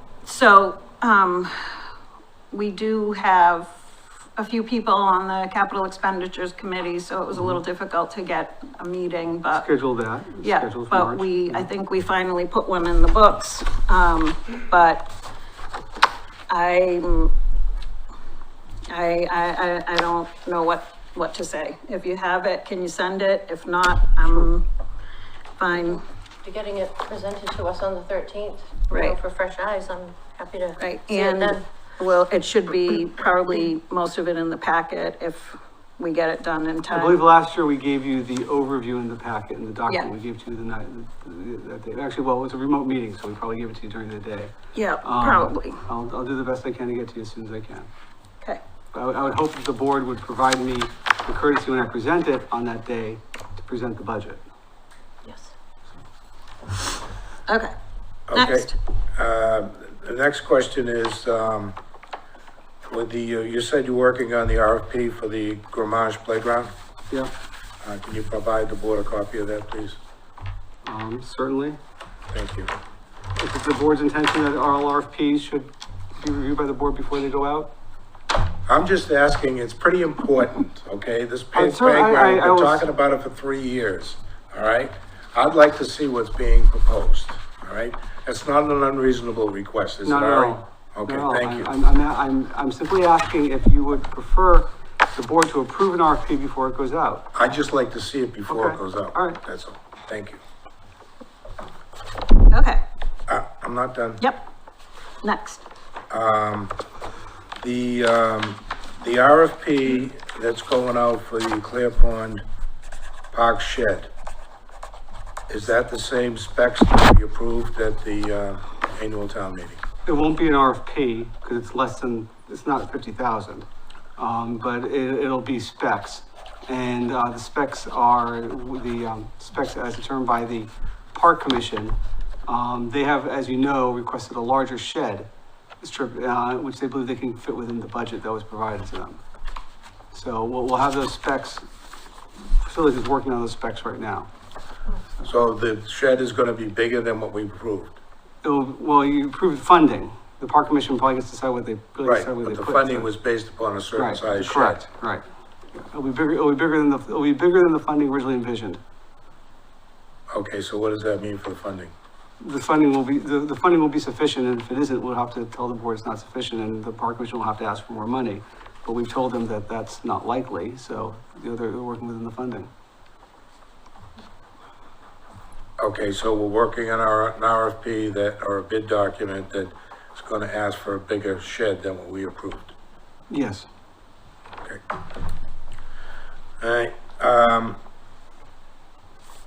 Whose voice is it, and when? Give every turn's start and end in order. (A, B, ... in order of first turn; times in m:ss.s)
0:00.2-0:01.8 A
0:02.5-0:03.7 A
0:04.4-0:09.7 A
0:09.5-0:11.7 B
0:10.4-0:15.1 A
0:16.5-0:17.3 A
0:18.9-0:24.6 A
0:25.6-0:26.0 A
0:26.4-0:31.6 C
0:28.9-0:29.2 A
0:30.8-0:37.3 A
0:36.9-0:44.5 B
0:44.8-0:45.8 A
0:45.0-0:47.9 B
0:48.9-0:54.4 B
0:55.2-0:55.5 C
0:57.5-0:57.7 A
0:58.3-1:01.8 D
0:58.3-0:58.7 A
1:02.8-1:06.7 D
1:07.8-1:10.0 D
1:10.8-1:11.8 B
1:12.3-1:12.7 D
1:13.4-1:17.7 B
1:18.7-1:31.7 D
1:21.5-1:22.9 B
1:30.0-1:37.3 B
1:37.3-1:40.4 D
1:38.5-1:39.4 B
1:42.5-1:42.8 A
1:43.3-1:44.2 D
1:45.2-1:45.6 A
1:46.1-1:46.7 D
1:47.6-1:52.4 D
1:53.3-1:54.1 D
1:55.5-1:59.8 D
2:00.1-2:15.3 B
2:15.8-2:19.2 B
2:20.1-2:21.6 B
2:22.4-2:24.3 B
2:25.2-2:28.0 D
2:28.4-2:33.1 B
2:32.0-2:34.8 D
2:33.9-2:38.8 B
2:40.3-2:41.9 D
2:42.4-2:52.7 B
2:55.8-3:02.7 D
3:03.3-3:03.7 B
3:06.6-3:07.8 D